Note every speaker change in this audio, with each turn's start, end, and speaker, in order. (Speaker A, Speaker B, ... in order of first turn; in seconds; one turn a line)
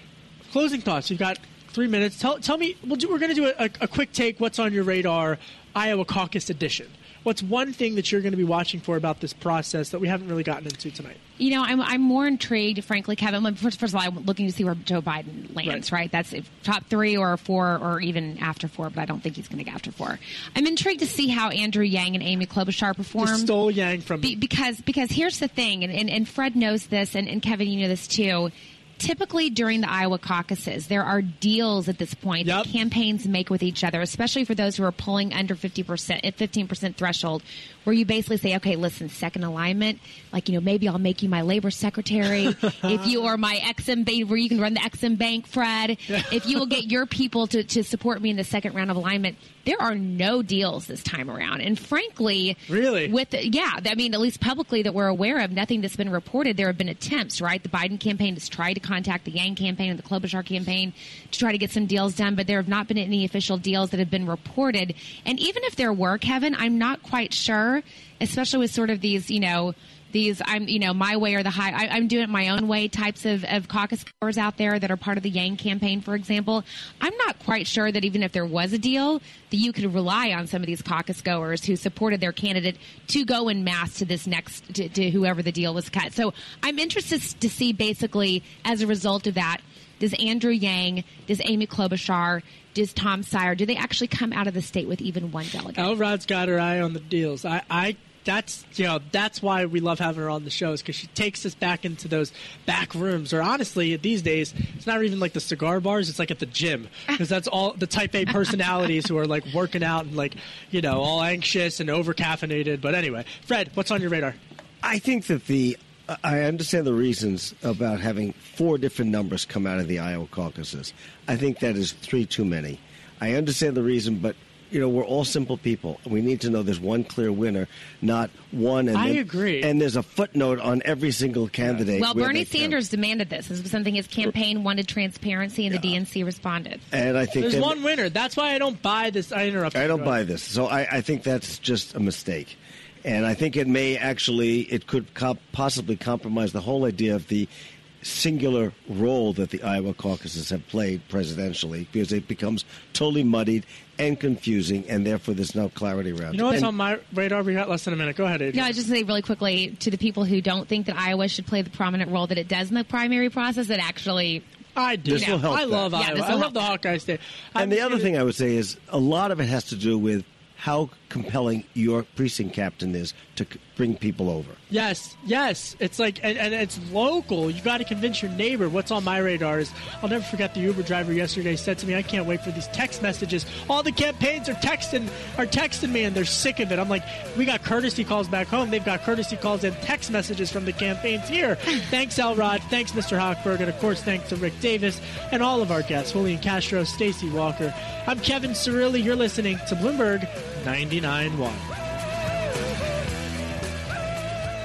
Speaker A: 0.5-11.2
Speaker B: 11.4-23.5
Speaker A: 23.2-24.3
Speaker B: 24.2-95.9
Speaker A: 32.4-32.7
Speaker A: 52.7-53.1
Speaker A: 95.8-114.4
Speaker C: 114.8-132.8
Speaker A: 128.9-129.7
Speaker B: 131.9-136.8
Speaker C: 135.7-136.0
Speaker C: 136.9-137.8
Speaker A: 137.4-140.2
Speaker C: 139.7-147.5
Speaker C: 148.0-156.7
Speaker A: 156.3-158.7
Speaker B: 158.5-164.4
Speaker A: 164.8-168.1
Speaker C: 165.1-165.9
Speaker B: 165.1-166.8
Speaker C: 167.6-174.6
Speaker A: 174.7-201.6